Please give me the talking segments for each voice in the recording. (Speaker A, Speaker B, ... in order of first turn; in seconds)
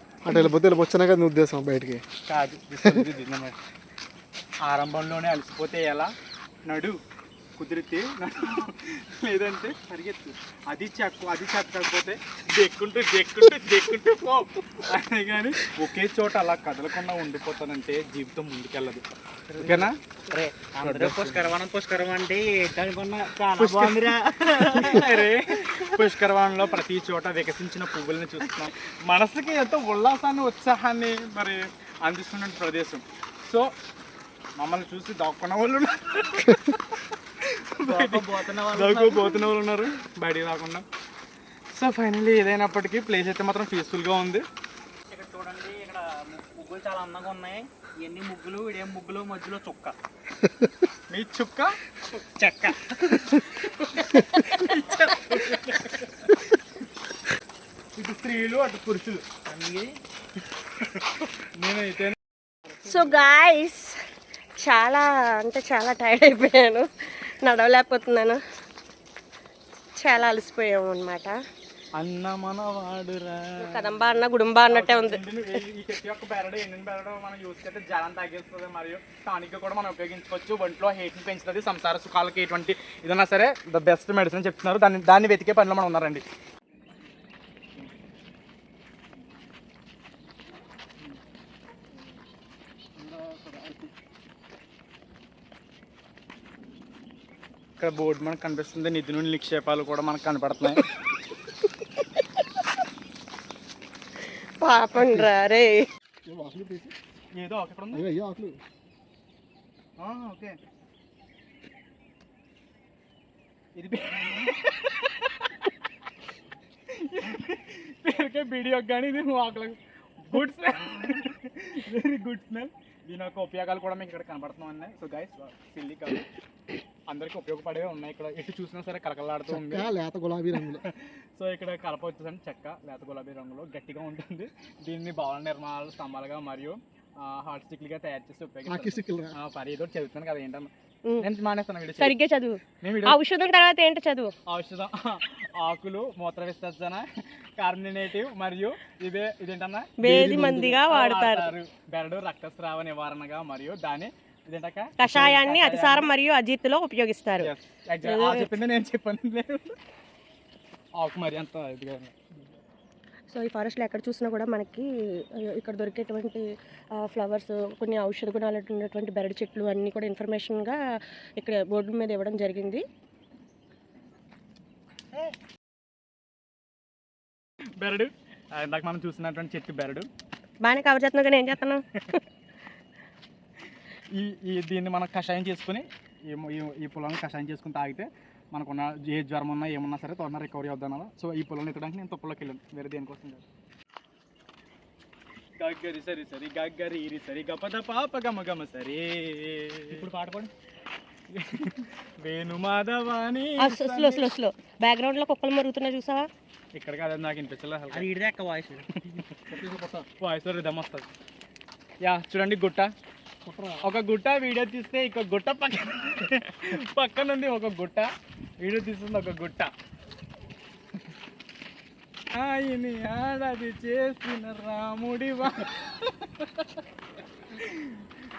Speaker A: 0.2-2.0, 106.2-106.9, 107.9-108.6, 129.5-130.8, 138.7-139.3, 209.5-210.1, 213.4-213.9
Speaker B: 2.2-3.6, 4.6-6.1, 6.7-7.0, 7.6-19.1, 19.6-19.9, 20.8-21.5, 23.6-33.7, 34.6-40.9, 41.7-44.5, 51.1-51.8, 54.7-56.4, 58.0-59.2, 61.6-62.2, 72.0-86.2, 93.0-93.9, 97.8-100.9, 107.3-108.1, 110.0-110.6, 113.8-115.7, 116.9-126.3, 127.1-129.9, 130.5-140.7, 141.2-142.2, 142.8-143.2, 144.5-147.1, 147.6-156.1, 157.4-159.8, 161.0-162.2, 177.8-180.1, 184.1-193.4, 195.6-200.0, 201.3-204.3, 206.8-208.1, 210.2-211.1, 212.0-212.9, 213.8-218.1, 218.6-219.7, 222.3-226.8, 227.5-228.1
Speaker C: 19.5-25.9, 37.8-39.5, 45.1-50.0, 52.1-55.4, 59.5-60.0, 199.9-200.5, 207.9-209.0
Speaker D: 62.9-64.0, 64.6-68.4, 70.0-71.4, 73.6-75.2, 104.6-105.8, 142.0-144.3, 150.0-151.5, 155.0-157.5, 158.0-158.5, 163.3-164.9, 165.5-166.4, 167.0-170.8, 171.4-172.8, 180.6-182.2, 203.6-206.3